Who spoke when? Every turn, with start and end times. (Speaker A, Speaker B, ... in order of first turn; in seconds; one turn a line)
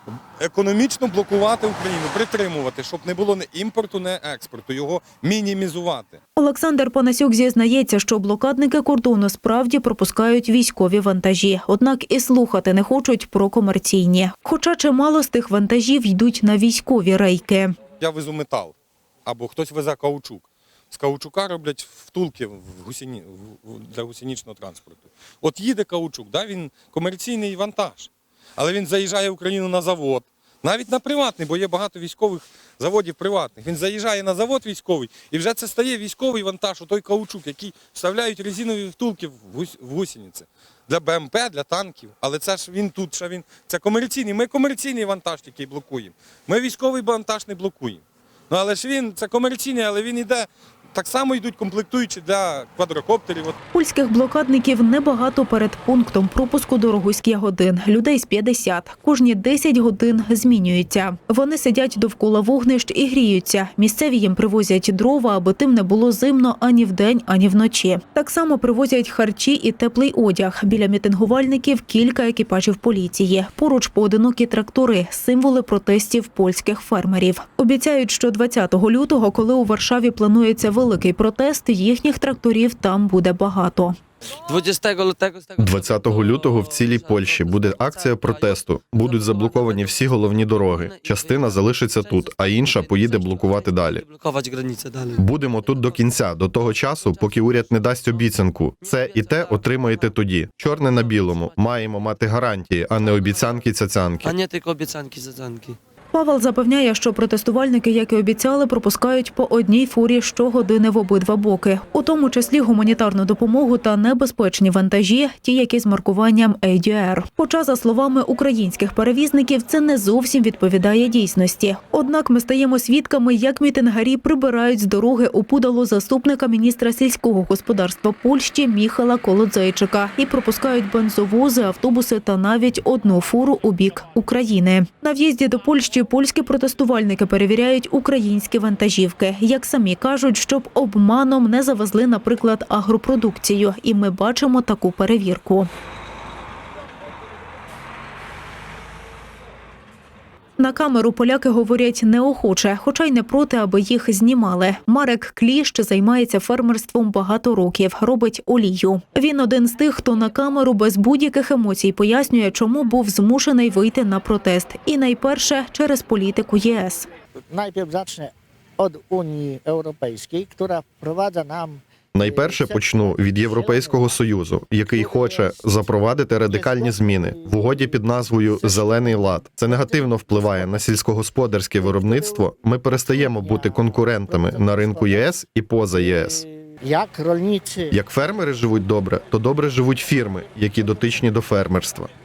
Speaker A: 0.4-6.2
Speaker B: 6.3-17.8
Speaker A: 18.0-53.5
Speaker B: 53.7-84.0
Speaker C: 84.4-87.8
Speaker D: 85.6-94.1
Speaker C: 89.2-90.0
Speaker C: 92.3-95.2
Speaker D: 95.2-104.3
Speaker C: 104.2-105.8
Speaker B: 106.1-145.7
Speaker B: 150.6-167.1
Speaker E: 167.5-180.8
Speaker D: 172.1-186.4
Speaker E: 181.7-187.9
Speaker D: 187.9-192.1